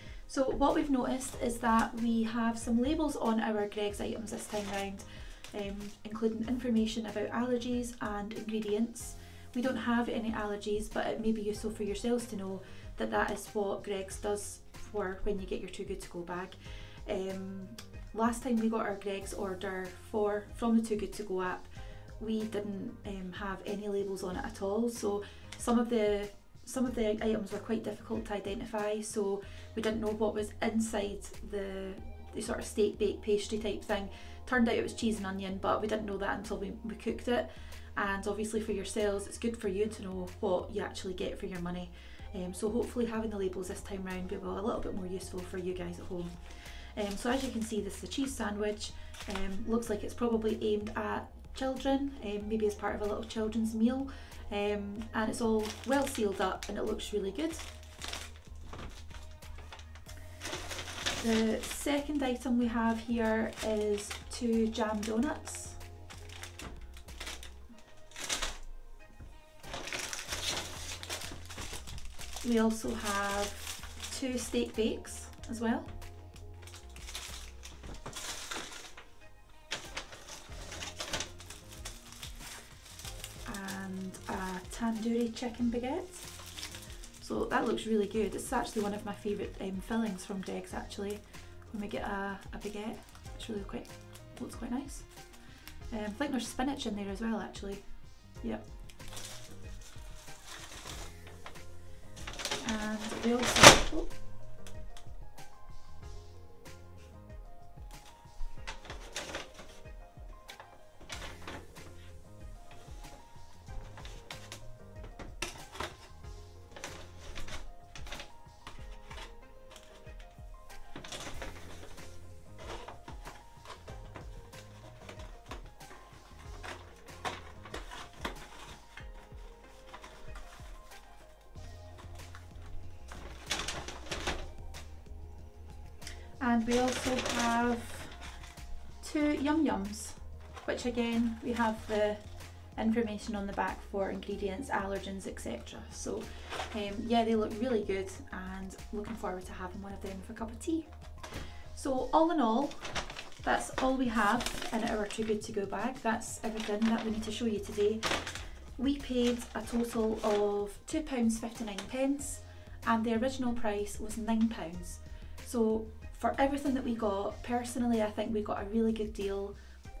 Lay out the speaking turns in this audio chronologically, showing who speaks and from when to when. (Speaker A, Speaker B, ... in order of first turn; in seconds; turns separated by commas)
Speaker A: 0.3-57.7, Speaker A: 61.1-65.8, Speaker A: 72.4-75.9, Speaker A: 83.4-86.3, Speaker A: 87.2-98.7, Speaker A: 102.6-104.1, Speaker A: 136.4-138.2, Speaker A: 139.0-142.2, Speaker A: 142.7-150.9, Speaker A: 151.7-152.9, Speaker A: 153.4-169.6